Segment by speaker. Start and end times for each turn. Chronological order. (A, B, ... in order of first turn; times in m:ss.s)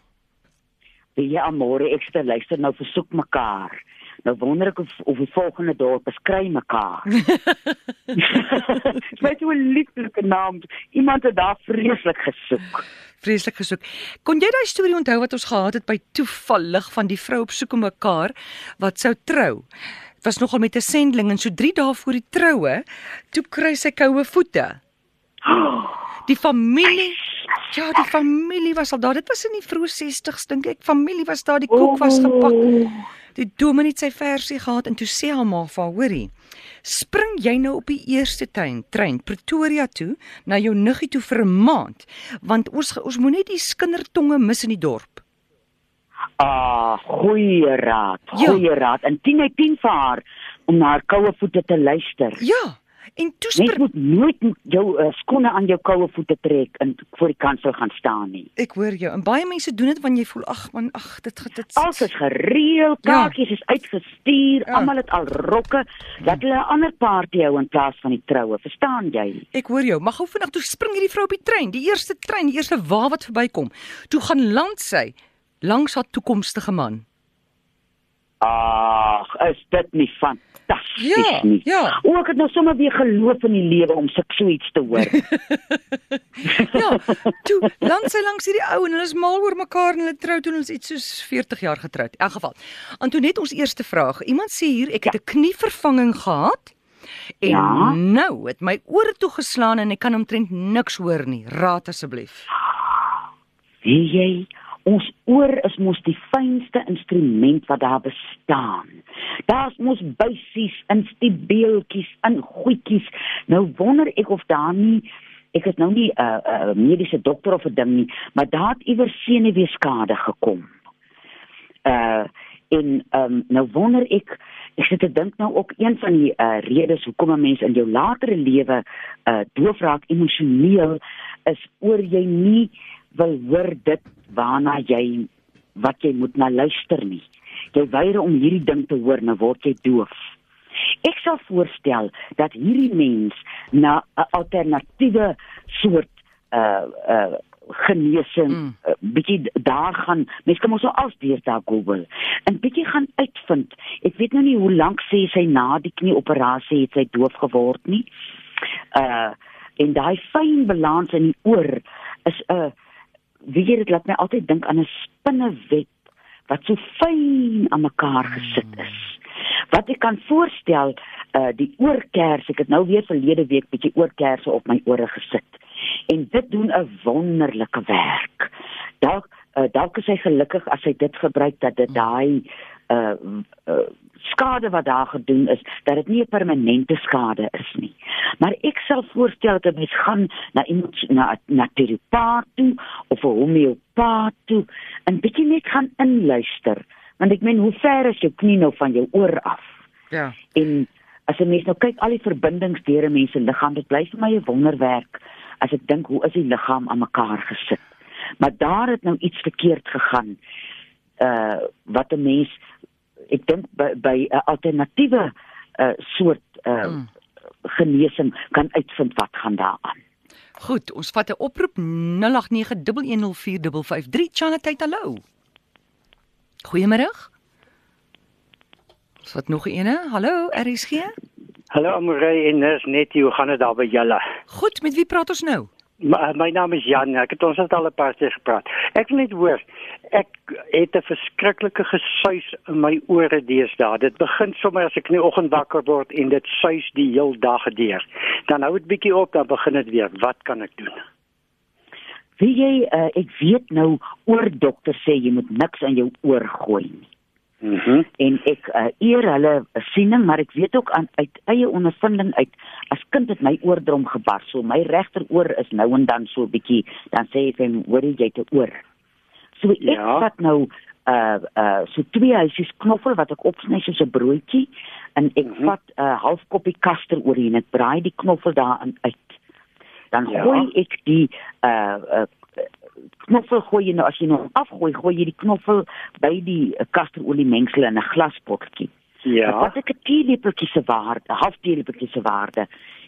0:01.2-0:07.2 A
0:08.2-0:12.8 A
0:13.2-0:19.7 B
0:20.2-0:24.8 B
0:25.5-0:25.9 A
0:26.2-0:32.8 B
0:31.7-0:33.0 A
0:33.4-0:36.3 B
0:36.8-0:45.2 B
0:46.4-0:52.4 A
0:48.3-0:48.6 B
0:52.4-0:53.8 B
0:53.6-0:58.5 A
0:58.6-1:02.0 B
1:01.7-1:09.5 A
1:03.0-1:03.3 B
1:09.5-1:17.0 B
1:18.4-1:25.2 A
1:21.0-1:22.0 B
1:26.5-1:36.8 B
1:37.4-1:42.5 B
1:37.4-1:38.0 A
1:43.8-2:00.7 A
2:01.8-2:20.2 A
2:21.0-2:38.1 A
2:38.9-2:42.7 A
2:43.5-2:45.9 A
2:46.5-3:19.7 A
3:20.5-3:27.8 A
3:28.4-3:30.4 A
3:31.2-3:32.6 A
3:33.3-3:37.0 A
3:37.6-3:40.0 A
3:40.6-3:45.2 B
3:46.6-3:47.3 B
3:49.2-3:51.1 B
3:51.7-3:54.2 C
3:54.5-3:55.7 B
3:56.0-4:11.0 C
4:12.4-4:17.1 A
4:17.6-4:18.1 C
4:18.2-4:28.8 A
4:29.6-4:39.4 A
4:29.8-4:30.2 C
4:40.1-4:42.7 A
4:40.3-4:40.6 C
4:43.2-4:48.9 A
4:49.2-4:49.7 C
4:49.4-4:52.7 A